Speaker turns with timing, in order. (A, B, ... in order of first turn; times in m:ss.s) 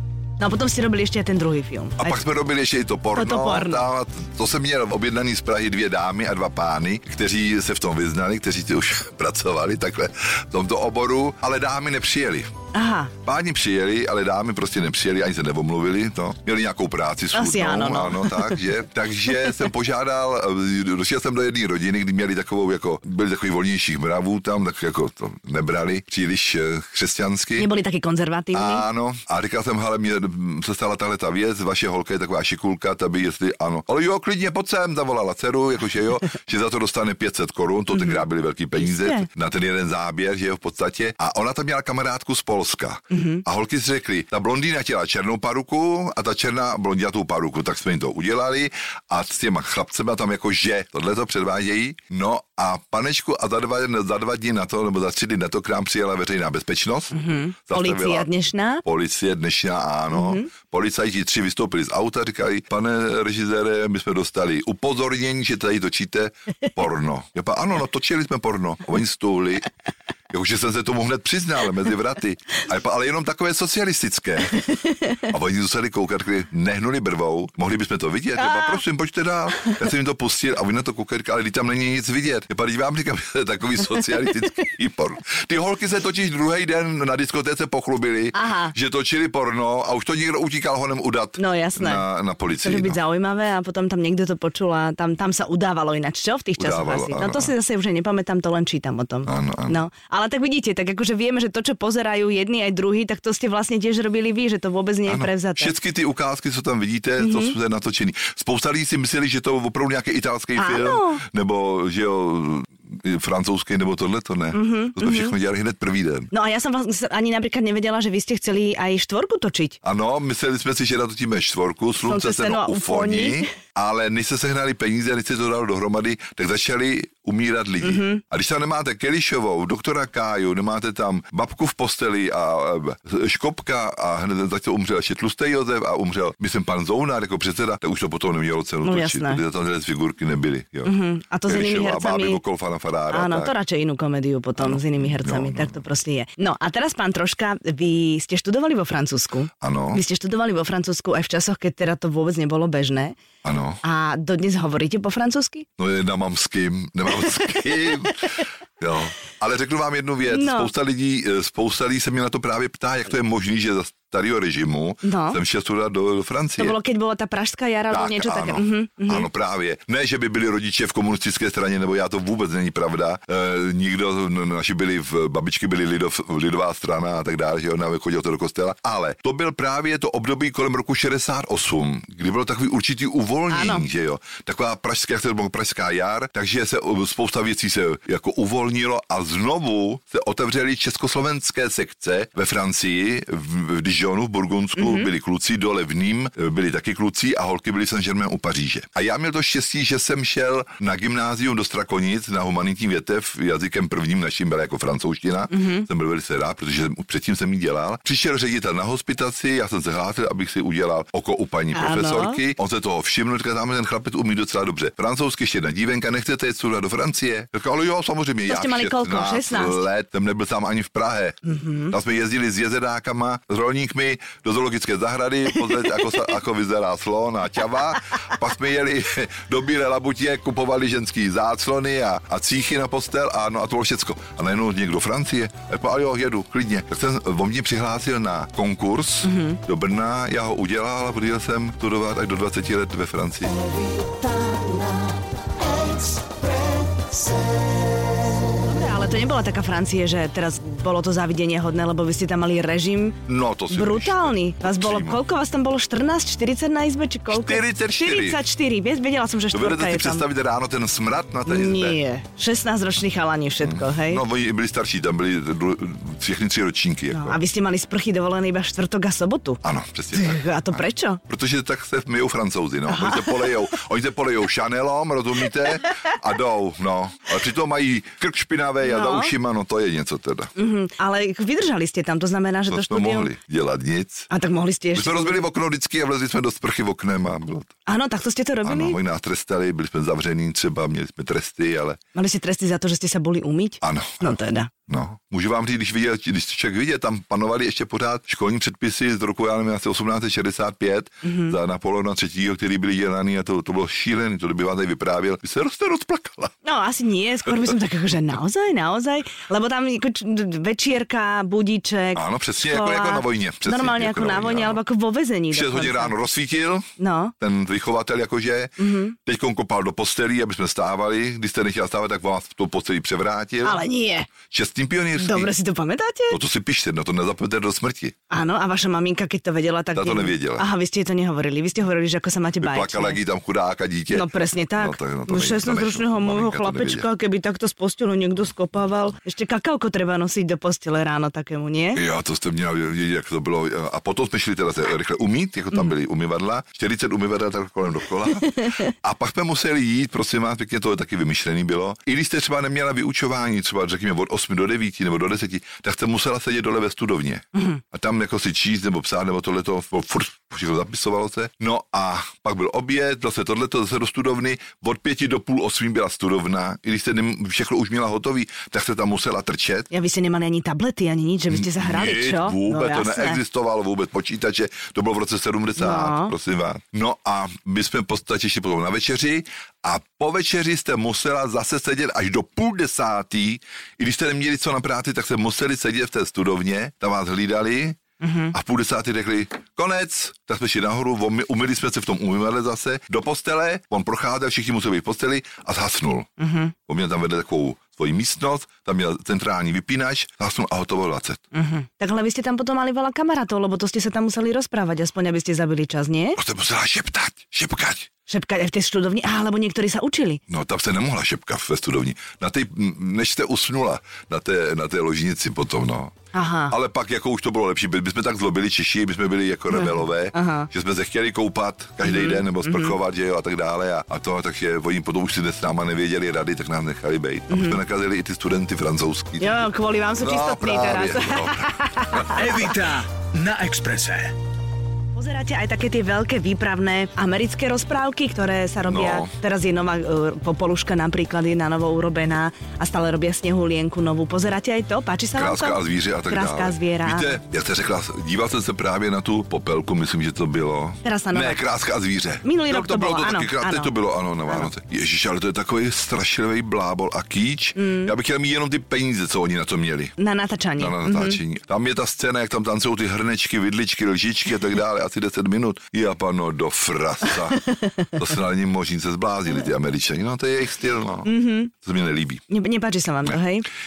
0:00.4-0:02.2 A
0:02.0-0:12.5 B
0:03.1-0:03.8 A
0:12.7-0:13.1 A
0:13.2-0:27.7 B
0:17.3-0:18.6 A
0:27.6-0:28.8 A
0:28.5-0:57.1 B
0:37.9-0:38.2 A
0:38.8-0:39.3 A
0:43.1-0:43.4 A
0:57.1-0:58.8 A
0:57.7-0:58.3 B
0:58.8-1:09.6 B
1:00.1-1:00.5 A
1:10.3-1:33.0 B
1:14.6-1:15.2 A
1:18.4-1:18.8 A
1:28.3-1:28.7 A
1:31.4-1:32.0 A
1:32.6-1:45.7 A
1:36.6-1:37.5 B
1:39.2-1:39.8 B
1:45.1-1:56.3 B
1:47.2-1:47.6 A
1:50.6-1:51.2 A
1:54.5-1:55.3 A
1:56.3-1:59.8 A
1:59.8-2:20.9 B
2:02.0-2:03.6 A
2:07.8-2:08.2 A
2:18.8-2:19.4 A
2:20.8-2:22.4 A
2:21.4-2:23.5 B
2:23.1-2:33.2 A
2:24.6-2:25.8 B
2:29.6-2:30.0 B
2:33.4-2:33.8 B
2:33.8-2:35.7 A
2:35.8-2:46.8 B
2:40.3-2:40.7 A
2:45.0-2:45.4 A
2:46.6-2:49.3 A
2:47.9-4:03.5 B
3:03.5-3:03.8 A
3:14.8-3:15.1 A
3:25.5-3:25.9 A
3:31.7-3:32.4 A
3:38.4-3:39.8 A
3:41.4-3:41.9 A
3:59.2-3:59.6 A
4:08.6-4:13.2 A
4:13.3-4:15.2 B
4:13.7-4:20.2 A
4:17.3-4:18.4 B
4:19.5-4:22.0 B
4:21.4-4:24.2 A
4:23.6-4:27.4 B
4:27.1-4:29.6 A
4:29.6-4:40.5 B
4:30.1-4:31.2 A
4:32.9-4:33.5 A
4:38.8-4:39.3 A
4:40.6-4:43.3 A
4:42.7-4:44.3 B
4:44.3-4:45.4 A
4:44.9-4:47.8 B
4:47.9-4:49.0 A
4:48.6-4:52.0 B
4:52.1-4:54.7 A
4:53.8-4:54.4 B
4:54.9-5:06.5 B
5:01.2-5:01.5 A
5:06.6-5:16.1 A
5:12.1-5:14.8 B
5:15.5-5:23.8 B
5:17.0-5:17.3 A
5:18.8-5:19.1 A
5:23.6-5:24.3 A
5:24.4-5:25.5 B
5:25.2-5:26.4 A
5:26.3-5:28.1 B
5:28.3-5:33.2 A
5:29.9-5:30.7 B
5:32.6-5:37.1 B
5:34.1-5:42.0 A
5:41.9-6:09.9 B
5:48.4-5:48.9 A
5:57.5-5:57.8 A
6:09.9-6:13.4 A
6:11.5-6:28.0 B
6:15.8-6:16.3 A
6:28.2-6:28.5 A
6:28.5-6:36.3 B
6:36.4-6:36.7 A
6:36.8-6:41.4 B
6:41.5-6:46.4 A
6:46.4-6:48.1 B
6:48.3-6:50.4 A
6:50.5-6:56.1 B
6:56.3-6:56.7 A
6:56.7-7:12.6 B
6:59.7-7:00.7 A
7:02.0-7:03.0 A
7:07.5-7:07.8 A
7:09.4-7:12.7 A
7:12.3-7:14.3 C
7:15.1-7:27.4 A
7:18.8-7:19.3 B
7:25.3-7:40.1 B
7:31.0-7:31.6 A
7:32.4-7:33.9 A
7:37.8-7:38.1 A
7:40.2-7:41.4 A
7:40.8-7:52.4 B
7:47.3-7:48.2 A
7:51.2-7:51.7 A
7:52.5-7:53.6 A